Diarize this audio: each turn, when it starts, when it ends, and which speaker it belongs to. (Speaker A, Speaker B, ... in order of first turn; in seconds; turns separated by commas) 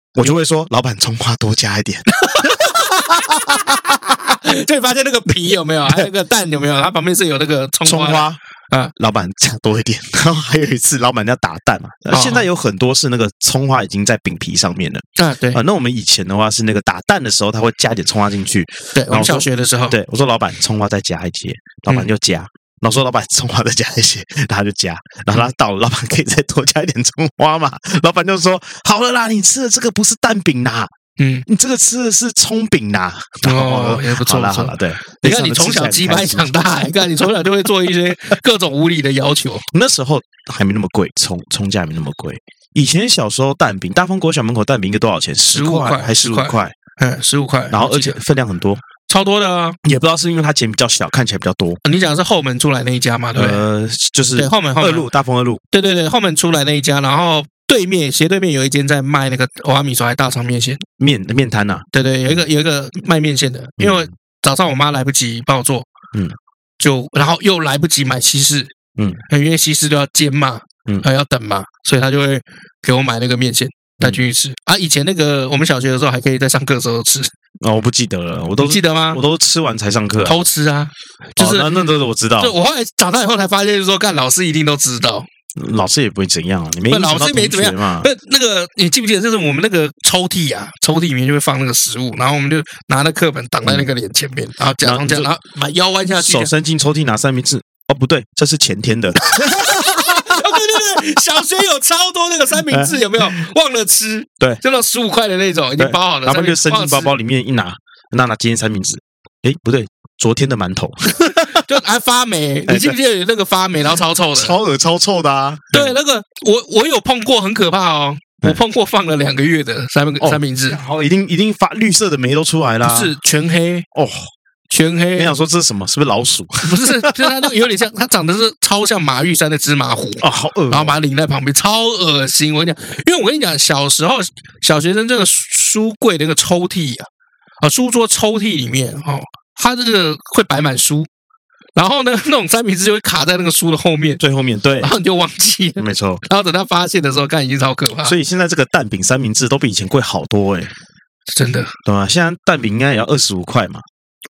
Speaker A: 0.1-4.1, Speaker B: 2.1-8.9, Speaker A: 7.8-8.4, Speaker A: 9.0-30.9, Speaker B: 12.1-12.4, Speaker B: 15.2-15.6, Speaker B: 18.9-19.9, Speaker B: 31.2-31.4, Speaker A: 31.5-36.5, Speaker B: 33.4-39.6, Speaker A: 39.7-46.7, Speaker B: 45.5-48.2, Speaker A: 47.7-48.8, Speaker B: 49.0-49.8, Speaker A: 49.8-51.8, Speaker B: 51.8-53.6, Speaker A: 53.3-55.6, Speaker B: 54.4-55.1, Speaker B: 55.7-60.8, Speaker A: 61.0-62.4, Speaker B: 61.9-65.9, Speaker A: 63.8-64.1, Speaker B: 66.8-68.7, Speaker A: 69.0-69.2, Speaker B: 69.3-77.3, Speaker A: 74.0-74.2, Speaker A: 77.6-80.4, Speaker B: 78.6-79.2, Speaker B: 80.2-81.9, Speaker A: 81.4-82.5, Speaker B: 82.4-85.3, Speaker A: 85.5-88.1, Speaker B: 86.9-96.5, Speaker A: 94.8-95.3, Speaker A: 96.1-101.2, Speaker B: 99.2-107.1, Speaker A: 102.5-103.4, Speaker A: 105.8-111.7, Speaker B: 111.3-114.5, Speaker A: 112.7-113.0, Speaker A: 114.3-115.9, Speaker B: 115.7-120.8, Speaker A: 120.2-123.1, Speaker B: 122.8-123.8, Speaker A: 123.9-124.3, Speaker B: 124.7-125.3, Speaker A: 125.2-127.5, Speaker B: 126.6-137.1, Speaker A: 130.2-131.0, Speaker B: 137.6-141.1, Speaker B: 141.8-144.2, Speaker A: 144.2-144.9, Speaker B: 144.8-148.1, Speaker A: 145.8-146.2, Speaker A: 148.0-150.7, Speaker B: 151.3-151.7, Speaker A: 151.8-153.8